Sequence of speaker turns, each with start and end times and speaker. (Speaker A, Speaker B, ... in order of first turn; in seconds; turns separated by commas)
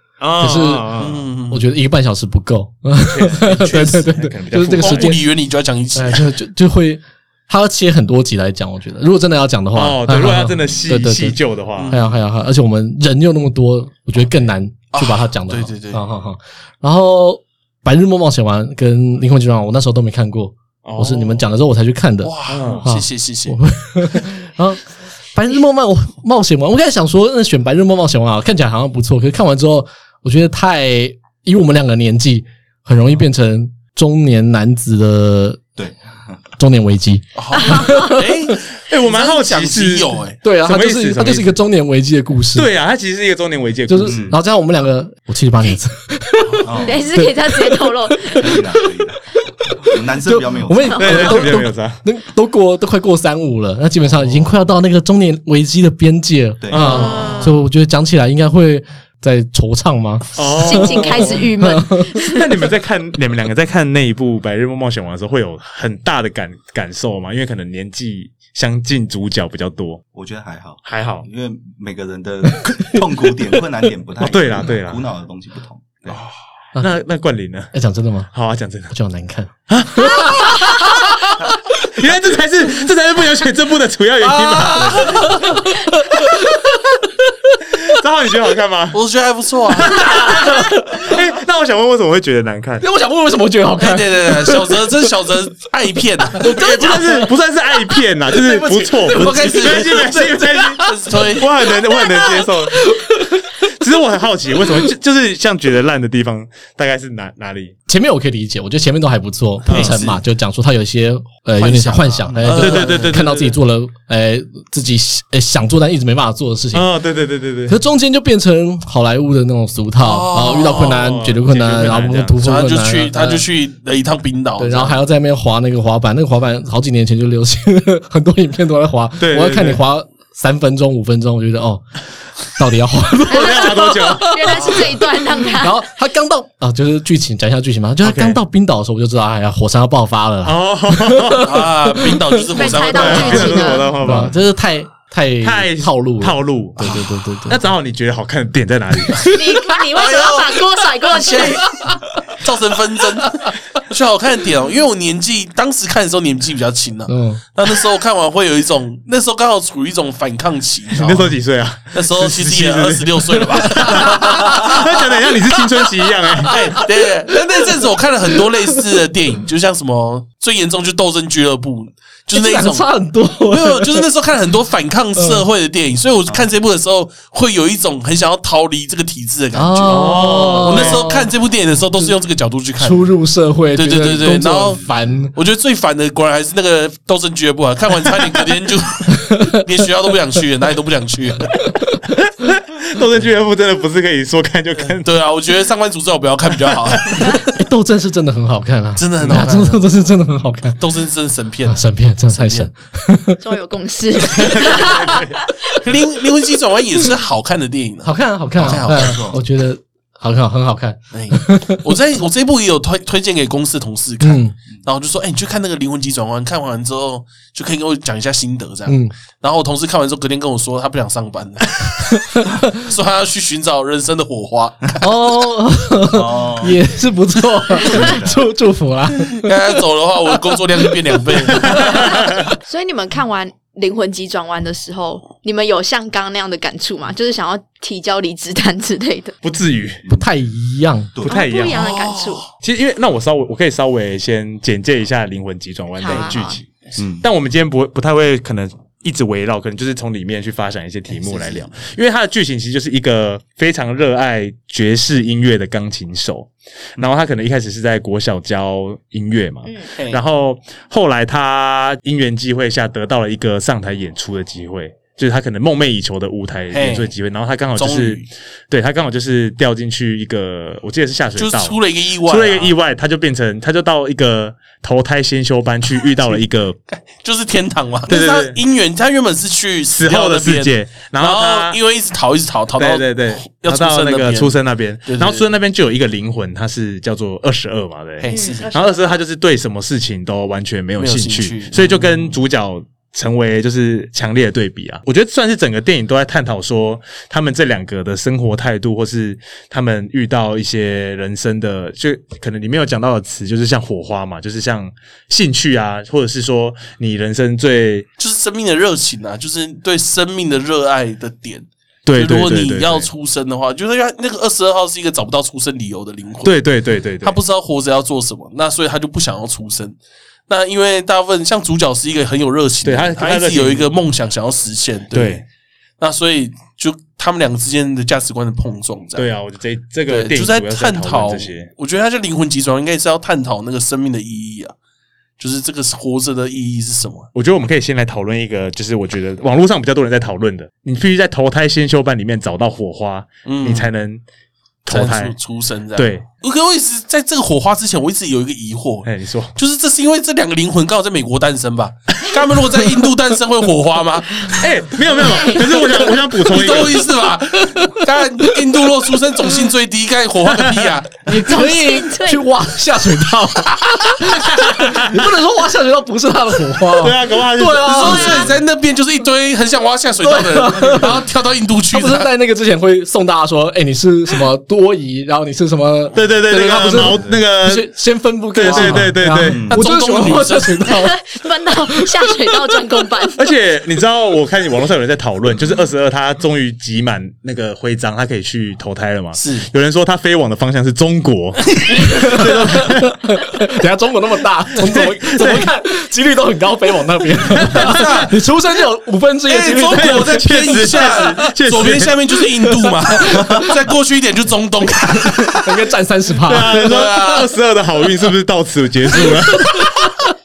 Speaker A: 0.2-1.3, Speaker B: 0.4-0.9, Speaker C: 1.0-1.6, Speaker B: 1.5-5.2, Speaker A: 3.0-5.2, Speaker C: 4.7-6.3, Speaker B: 5.9-24.8, Speaker A: 9.7-12.0, Speaker C: 11.7-12.0, Speaker C: 14.9-16.0, Speaker A: 20.8-21.4, Speaker C: 22.2-23.6, Speaker A: 22.5-22.9, Speaker B: 25.3-35.6, Speaker D: 35.8-36.4, Speaker B: 36.6-38.5, Speaker C: 37.4-40.4, Speaker E: 37.5-38.1, Speaker A: 38.9-41.5, Speaker B: 40.4-42.7, Speaker A: 42.5-44.2, Speaker B: 43.9-48.9, Speaker D: 44.0-44.4, Speaker D: 46.6-47.1, Speaker E: 46.8-48.6, Speaker D: 48.3-49.2, Speaker D: 49.7-51.1, Speaker B: 49.9-62.1, Speaker A: 51.0-52.0, Speaker D: 56.6-57.1, Speaker E: 56.8-57.5, Speaker A: 57.0-57.3, Speaker A: 60.3-61.5, Speaker E: 60.6-62.5, Speaker A: 62.2-70.0, Speaker D: 70.1-76.2, Speaker A: 70.8-71.2, Speaker A: 74.2-75.0, Speaker A: 76.1-77.7, Speaker B: 77.7-78.3, Speaker A: 78.3-78.9, Speaker B: 78.9-80.9, Speaker A: 79.7-85.3, Speaker B: 84.2-87.5, Speaker A: 87.8-89.0, Speaker C: 88.9-90.2, Speaker A: 89.7-92.8, Speaker B: 90.0-91.1, Speaker B: 92.8-95.0, Speaker C: 93.8-97.0, Speaker B: 96.3-97.3, Speaker A: 96.4-102.9, Speaker B: 98.2-103.5, Speaker C: 98.9-101.5, Speaker A: 103.6-107.7, Speaker B: 107.9-116.9, Speaker A: 109.7-110.1, Speaker C: 109.7-110.0, Speaker C: 111.6-113.1, Speaker D: 112.3-112.6, Speaker A: 112.5-113.5, Speaker A: 116.7-117.8, Speaker B: 117.7-123.4, Speaker C: 120.0-121.0, Speaker A: 120.7-122.4, Speaker C: 122.4-125.0, Speaker B: 124.6-131.8, Speaker A: 129.2-129.8, Speaker B: 132.5-147.6, Speaker A: 133.3-134.5, Speaker E: 133.3-135.9, Speaker C: 134.5-134.9, Speaker A: 138.0-138.4, Speaker A: 140.4-141.6, Speaker C: 141.4-143.8, Speaker E: 142.5-143.9, Speaker A: 142.8-144.4, Speaker A: 145.4-149.4, Speaker E: 149.3-151.7, Speaker C: 149.9-161.3, Speaker B: 157.1-157.4, Speaker A: 160.9-166.8, Speaker C: 161.9-165.2, Speaker B: 163.8-164.8, Speaker B: 166.4-167.7, Speaker C: 166.4-172.9, Speaker B: 172.3-174.1, Speaker C: 173.5-183.1, Speaker B: 175.2-175.4, Speaker B: 179.5-181.3, Speaker A: 179.9-181.1, Speaker B: 182.8-185.3, Speaker C: 183.7-184.8, Speaker C: 185.3-191.6, Speaker B: 189.1-189.6, Speaker A: 192.3-195.1, Speaker C: 195.0-197.5, Speaker B: 197.2-200.8, Speaker C: 199.0-199.9, Speaker C: 200.8-202.7, Speaker B: 201.7-203.4, Speaker E: 203.4-205.4, Speaker A: 204.3-205.3, Speaker C: 205.7-209.2, Speaker B: 208.0-211.9, Speaker D: 208.6-209.4, Speaker C: 211.1-225.0, Speaker B: 214.2-214.5, Speaker B: 218.9-219.1, Speaker B: 222.1-222.7, Speaker B: 225.0-229.5, Speaker D: 226.1-226.8, Speaker D: 227.7-228.4, Speaker C: 229.3-231.9, Speaker B: 230.8-231.8, Speaker A: 231.6-232.5, Speaker E: 232.6-239.3, Speaker A: 239.4-240.0, Speaker B: 240.1-241.1, Speaker D: 241.1-241.4, Speaker A: 241.2-241.9, Speaker E: 241.2-242.4, Speaker C: 241.7-242.5, Speaker A: 242.6-246.7, Speaker E: 246.0-246.6, Speaker D: 247.0-247.2, Speaker A: 247.2-276.8, Speaker C: 251.1-251.7, Speaker C: 259.9-260.2, Speaker C: 266.7-267.1, Speaker C: 267.8-268.3, Speaker C: 271.4-272.7, Speaker C: 276.0-276.4, Speaker C: 276.9-285.5, Speaker A: 278.1-278.6, Speaker A: 279.9-281.8, Speaker A: 282.8-308.1, Speaker C: 288.2-288.7, Speaker E: 288.3-288.9, Speaker C: 291.0-292.4, Speaker C: 308.2-316.6, Speaker A: 312.1-313.1, Speaker A: 316.4-317.4, Speaker C: 317.2-319.9, Speaker C: 320.5-325.4, Speaker A: 322.8-323.9, Speaker A: 325.1-325.4, Speaker C: 326.0-329.3, Speaker A: 329.1-331.7, Speaker C: 330.1-334.7, Speaker C: 335.4-337.3, Speaker A: 337.3-344.2, Speaker C: 343.4-343.9, Speaker A: 344.9-345.3, Speaker C: 344.9-354.5, Speaker A: 345.9-346.2, Speaker A: 349.0-349.5, Speaker A: 354.4-357.1, Speaker E: 355.2-355.6, Speaker C: 355.9-361.2, Speaker B: 357.7-358.6, Speaker B: 361.2-368.5, Speaker E: 361.3-362.4, Speaker A: 364.4-365.3, Speaker A: 367.0-368.3, Speaker C: 367.8-372.3, Speaker E: 368.0-368.5, Speaker B: 370.2-371.2, Speaker B: 371.9-381.2, Speaker A: 376.1-377.9, Speaker D: 377.0-377.4, Speaker A: 378.5-379.7, Speaker C: 378.6-379.1, Speaker D: 379.5-379.8, Speaker C: 379.7-380.8, Speaker E: 380.8-383.4, Speaker B: 381.9-382.8, Speaker A: 383.4-393.2, Speaker C: 389.3-389.7, Speaker B: 392.0-401.4, Speaker A: 394.8-395.7, Speaker A: 397.5-398.3, Speaker C: 399.5-405.8, Speaker A: 399.9-402.1, Speaker B: 402.6-403.6, Speaker D: 403.3-403.6, Speaker B: 405.2-407.1, Speaker A: 406.4-410.1, Speaker C: 406.6-407.5, Speaker B: 409.2-410.1